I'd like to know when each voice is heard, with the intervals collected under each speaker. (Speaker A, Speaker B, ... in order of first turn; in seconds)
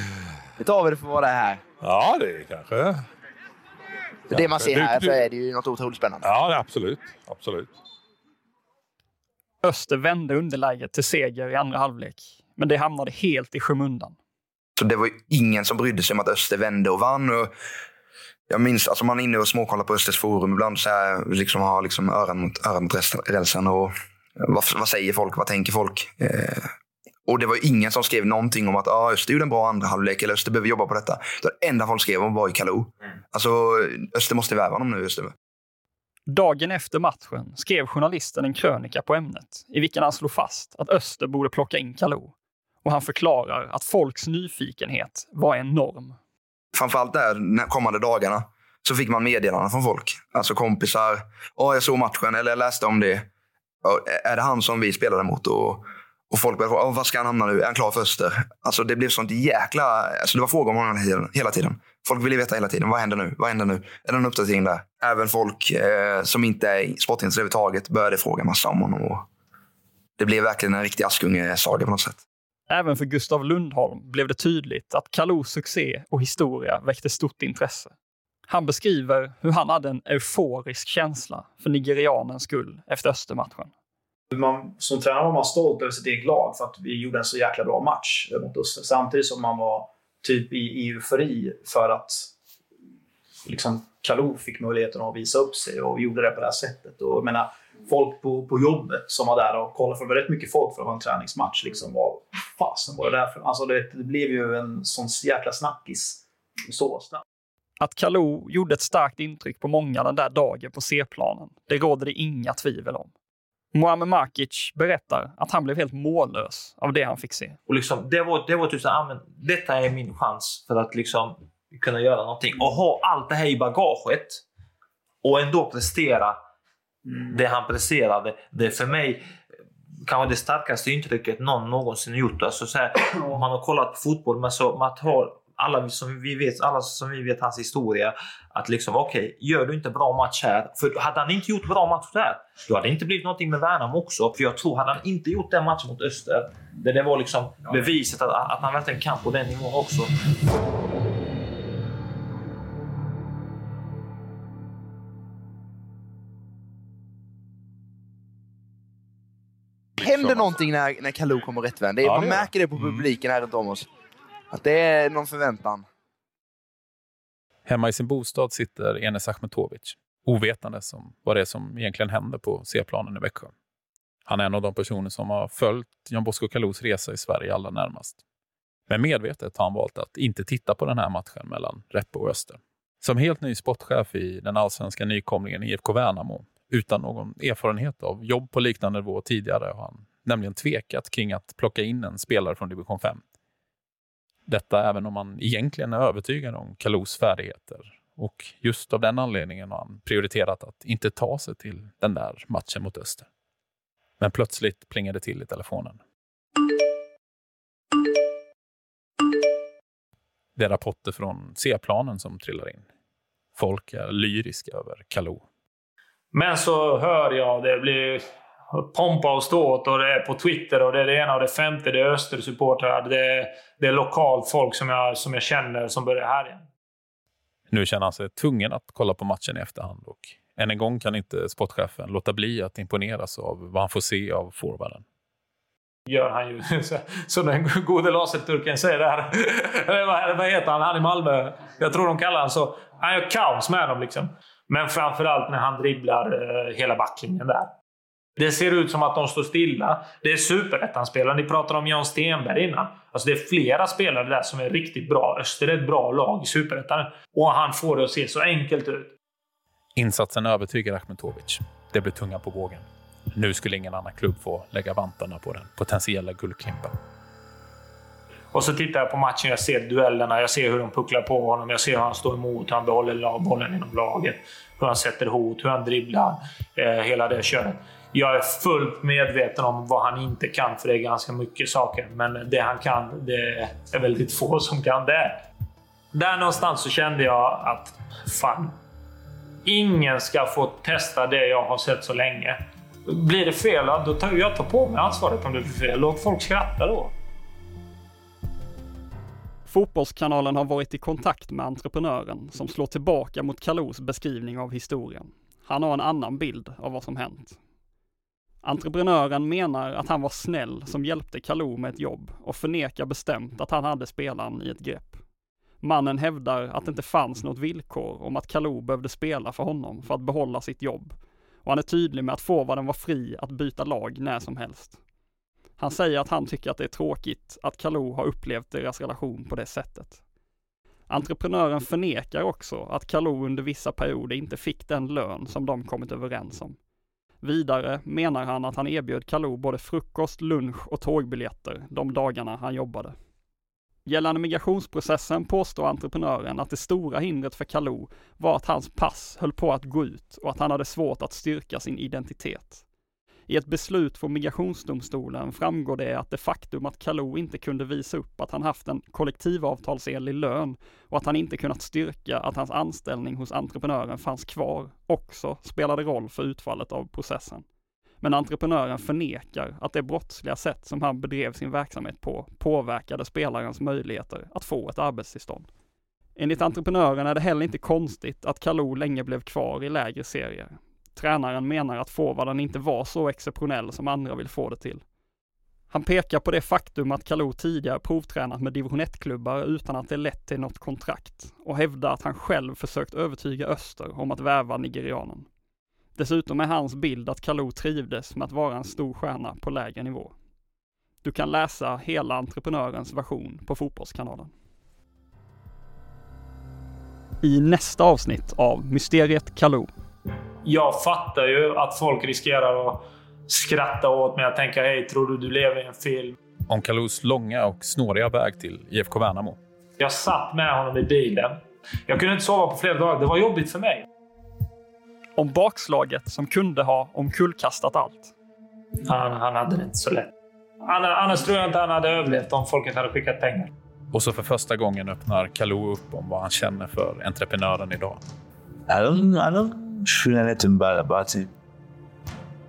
Speaker A: 0.6-1.6, 4.3-6.3, 160.0-163.9, 164.5-165.8
Speaker B: 1.8-3.1, 4.3-5.2, 6.2-7.7, 160.0-160.6, 162.0-163.1
Speaker C: 9.6-14.2, 36.3-42.3, 42.8-46.1, 72.7-77.9, 78.5-83.7, 107.8-113.1, 113.7-117.6, 299.7-307.6, 308.6-315.2, 315.8-325.0, 325.8-330.2, 331.1-336.8, 337.4-343.1, 344.1-352.8, 353.5-367.6, 368.2-375.7, 376.4-385.0, 385.9-395.5, 396.1-400.4, 401.2-404.5, 407.4-409.9, 425.4-428.3
Speaker D: 14.8-17.5, 18.5-26.7, 27.3-35.3, 46.7-53.3, 53.8-69.2, 70.2-72.2
Speaker E: 84.3-92.3, 93.5-107.2
Speaker F: 117.7-124.4, 125.2-126.4, 127.1-129.2, 130.0-150.1
Speaker G: 167.7-173.5, 174.3-178.2, 178.9-193.2, 194.5-203.3, 204.2-206.0, 210.6-212.9, 213.6-215.4, 227.7-235.0, 259.9-266.9, 416.7-419.6, 434.1-438.2
Speaker H: 216.3-226.7, 236.1-247.7, 248.4-259.1, 268.5-285.4, 286.1-288.8, 289.6-297.1, 410.6-416.4, 420.0-424.1, 429.0-430.3, 430.8-433.7
Speaker I: 438.9-441.5